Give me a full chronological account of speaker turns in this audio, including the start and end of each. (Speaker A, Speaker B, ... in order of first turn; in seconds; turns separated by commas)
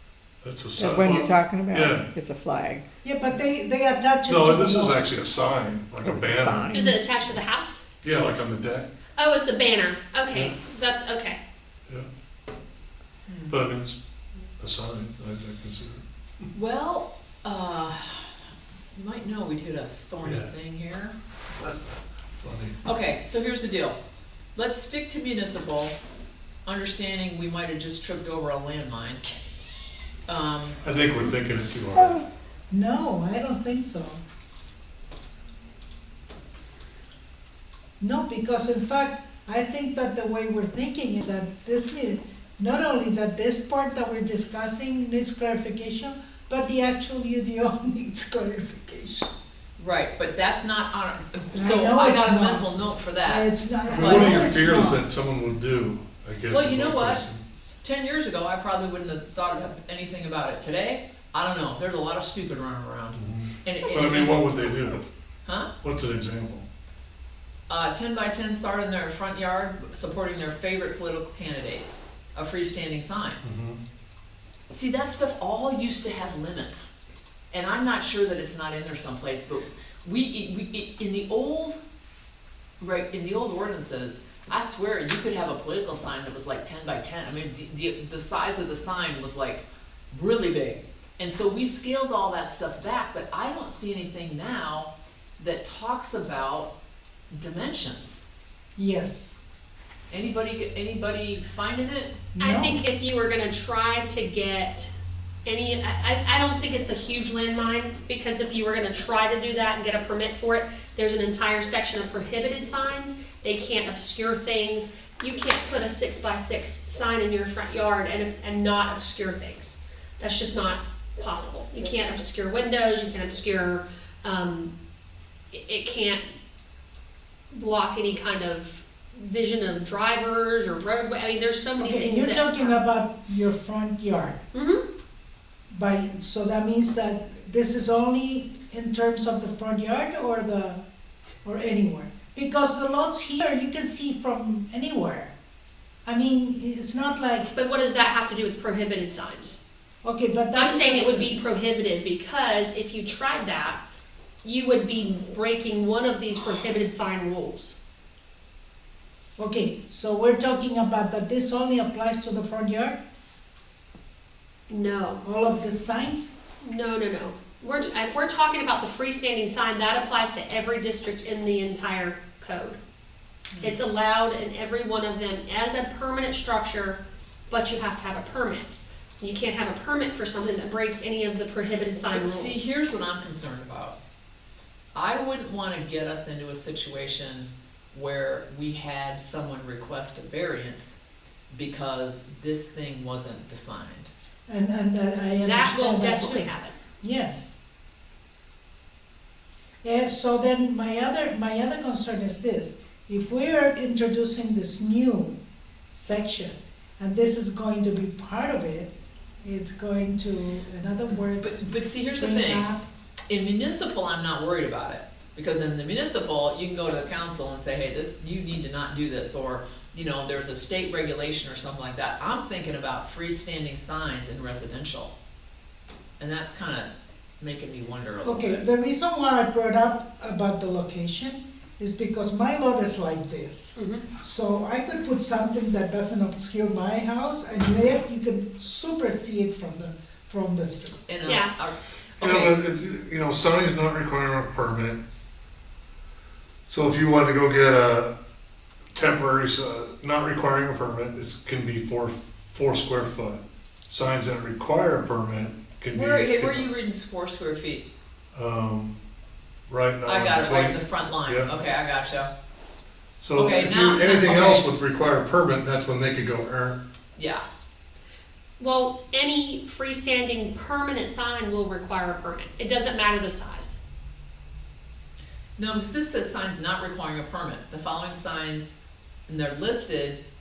Speaker A: 0.4-2.1, Speaker B: 0.7-2.8, Speaker C: 3.0-5.0, Speaker A: 4.3-6.8, Speaker B: 6.0-7.0, Speaker D: 6.7-7.8, Speaker A: 8.0-8.9, Speaker D: 9.2-11.4, Speaker E: 13.3-13.6, Speaker A: 13.5-14.0, Speaker A: 14.6-16.4, Speaker E: 16.5-18.3, Speaker E: 18.9-21.1, Speaker A: 20.2-20.5, Speaker A: 22.4-22.8, Speaker E: 22.8-24.0, Speaker E: 24.6-25.9, Speaker E: 26.7-29.3, Speaker E: 30.3-30.8, Speaker A: 30.8-32.2, Speaker B: 31.9-32.2, Speaker C: 32.7-34.2, Speaker C: 38.0-49.3, Speaker E: 49.8-53.5, Speaker C: 51.5-55.0, Speaker A: 53.9-57.4, Speaker E: 56.5-57.2, Speaker E: 57.8-64.5, Speaker A: 63.1-65.0, Speaker E: 65.5-65.7, Speaker A: 65.8-66.7, Speaker E: 67.7-73.4, Speaker A: 73.4-73.8, Speaker E: 74.7-76.9, Speaker E: 77.5-81.8, Speaker E: 82.8-96.7, Speaker E: 97.3-98.2, Speaker C: 98.8-99.4, Speaker E: 100.1-102.2, Speaker C: 102.3-102.8, Speaker D: 102.4-104.9, Speaker D: 105.5-124.7, Speaker D: 125.5-126.3, Speaker D: 127.5-132.8, Speaker C: 131.8-134.4, Speaker D: 134.5-134.8, Speaker C: 135.7-140.8, Speaker C: 141.4-145.3, Speaker C: 146.1-147.5, Speaker D: 147.5-149.6, Speaker C: 150.0-151.3, Speaker D: 150.5-153.8, Speaker D: 154.4-157.8, Speaker C: 159.4-163.0, Speaker D: 164.7-165.2, Speaker C: 165.2-166.3, Speaker D: 166.6-172.8, Speaker E: 173.5-173.8, Speaker D: 173.6-182.7, Speaker E: 182.1-184.0, Speaker E: 184.9-190.9, Speaker E: 191.5-194.1, Speaker C: 194.5-196.4, Speaker D: 195.4-196.8, Speaker C: 197.0-197.5, Speaker C: 199.8-205.3, Speaker C: 205.9-212.8, Speaker E: 211.1-212.7, Speaker E: 213.3-225.1, Speaker E: 226.2-228.7, Speaker C: 228.2-241.0, Speaker D: 233.8-234.0, Speaker E: 241.1-242.6, Speaker D: 241.2-241.5, Speaker A: 242.2-245.0, Speaker A: 246.7-248.1, Speaker A: 248.9-256.7, Speaker E: 255.9-257.9, Speaker A: 258.3-258.9, Speaker A: 259.7-261.5, Speaker E: 260.0-262.3, Speaker A: 263.2-266.8, Speaker E: 263.3-264.7, Speaker E: 267.1-267.4, Speaker D: 268.6-273.8, Speaker E: 275.6-278.7, Speaker E: 279.3-280.2